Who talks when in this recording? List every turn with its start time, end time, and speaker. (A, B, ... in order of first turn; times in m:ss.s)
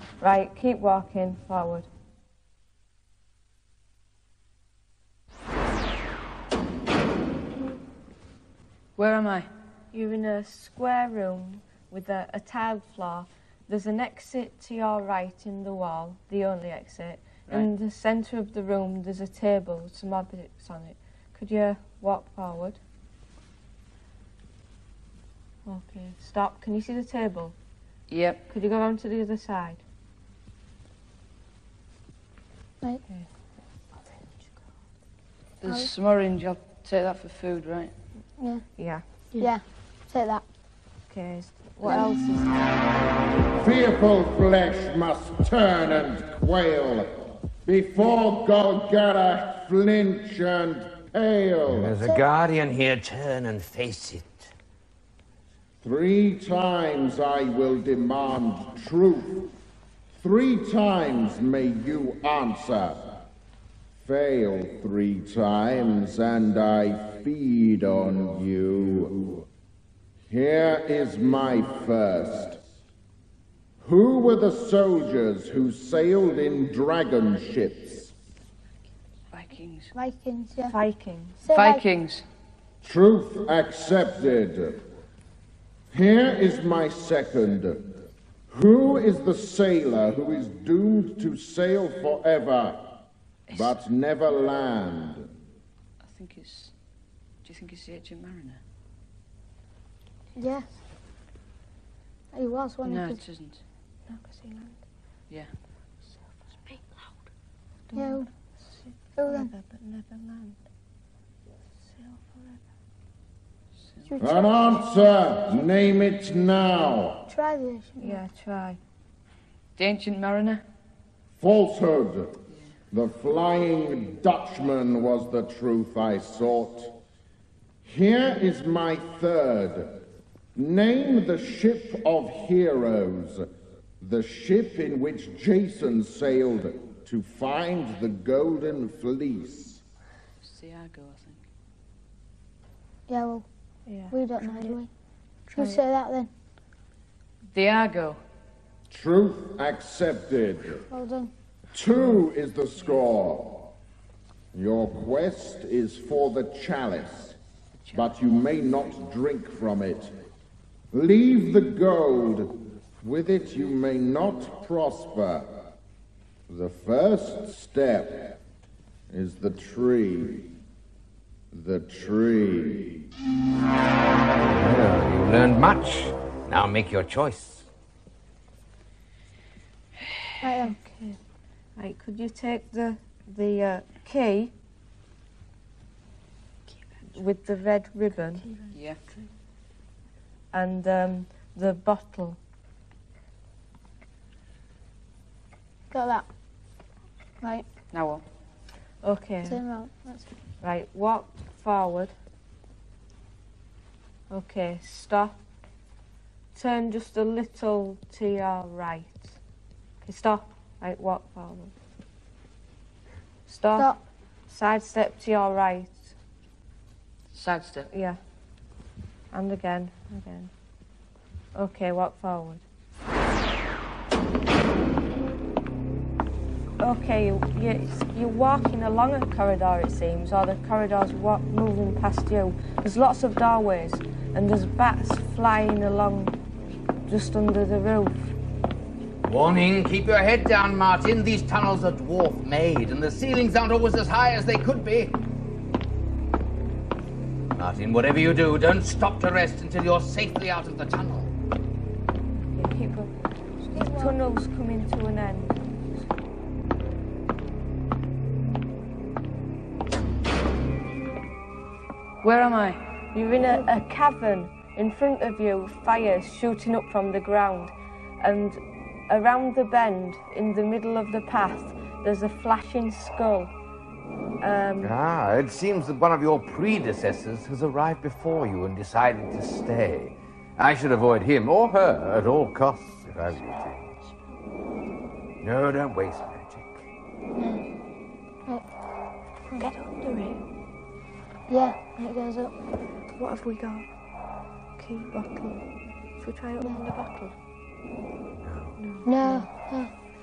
0:00.2-0:01.9 A
0:09.0-0:09.5 B
0:09.9-0:22.8 A
0:25.7-0:27.6 A
0:28.1-0:28.4 B
0:28.5-0:29.8 A
0:35.6-0:37.9 B
0:35.6-0:35.9 C
0:38.4-0:38.7 C
0:38.8-0:39.0 A
0:39.4-0:40.4 C
0:41.1-0:42.6 A
0:43.6-0:52.0 D
0:51.7-0:54.5 E
0:55.8-0:59.5 D
1:00.2-1:03.2 D
1:04.0-1:09.4 D
1:10.3-1:12.6 D
1:13.8-1:18.1 D
1:19.3-1:19.9 B
1:20.0-1:20.8 C
1:20.7-1:21.4 A
1:21.4-1:21.8 C
1:21.5-1:22.2 B
1:22.8-1:24.8 D
1:25.9-1:28.0 D
1:28.5-1:32.9 D
1:33.5-1:33.8 B
1:33.5-1:35.3 D
1:36.0-1:36.7 B
1:37.4-1:38.6 B
1:40.4-1:40.7 C
1:42.3-1:43.2 C
1:42.8-1:43.6 B
1:44.1-1:44.8 A
1:47.9-1:50.6 A
1:47.9-1:48.3 C
1:49.2-1:49.5 C
1:51.9-1:52.6 A
1:54.1-1:54.9 C
1:54.2-1:57.2 D
1:57.3-1:58.2 C
1:58.0-1:58.8 A
1:59.8-2:00.6 B
2:01.4-2:07.0 D
2:07.8-2:10.0 D
2:10.6-2:13.5 D
2:14.0-2:19.8 D
2:20.4-2:21.4 B
2:23.1-2:23.5 C
2:23.9-2:24.8 A
2:24.1-2:24.9 C
2:25.5-2:26.3 C
2:25.6-2:25.8 A
2:27.5-2:28.2 B
2:28.9-2:30.8 D
2:30.9-2:31.3 C
2:31.7-2:33.7 D
2:34.5-2:37.4 D
2:37.9-2:40.1 D
2:40.9-2:45.5 D
2:46.5-2:48.4 D
2:49.1-2:50.5 D
2:51.5-2:53.0 D
2:54.5-2:57.7 E
3:00.4-3:00.8 C
3:00.8-3:01.2 A
3:01.8-3:04.5 A
3:07.1-3:08.5 A
3:08.7-3:09.0 B
3:10.5-3:12.4 A
3:15.9-3:16.3 C
3:17.4-3:17.7 C
3:17.9-3:18.2 B
3:19.0-3:19.6 A
3:19.5-3:20.3 C
3:20.6-3:22.1 A
3:24.3-3:25.4 A
3:26.6-3:29.4 A
3:30.0-3:31.7 A
3:33.5-3:33.9 A
3:34.5-3:36.1 A
3:37.3-3:37.9 B
3:37.9-3:38.2 A
3:39.3-3:40.5 A
3:41.6-3:42.6 A
3:46.8-3:56.4 A
3:57.1-3:58.4 A
3:59.2-4:05.2 E
4:07.5-4:11.3 E
4:12.5-4:13.1 A
4:13.7-4:15.7 A
4:13.8-4:14.2 C
4:22.2-4:22.8 B
4:23.1-4:33.5 A
4:34.4-4:35.0 A
4:34.8-4:43.9 E
4:45.4-4:46.8 E
4:47.4-4:47.6 C
4:49.6-4:50.4 A
4:51.5-4:52.5 C
4:53.2-4:53.9 A
4:54.8-4:55.6 A
4:56.2-4:57.3 A
4:58.4-4:58.8 E
4:58.8-4:59.5 A
4:59.0-4:59.9 C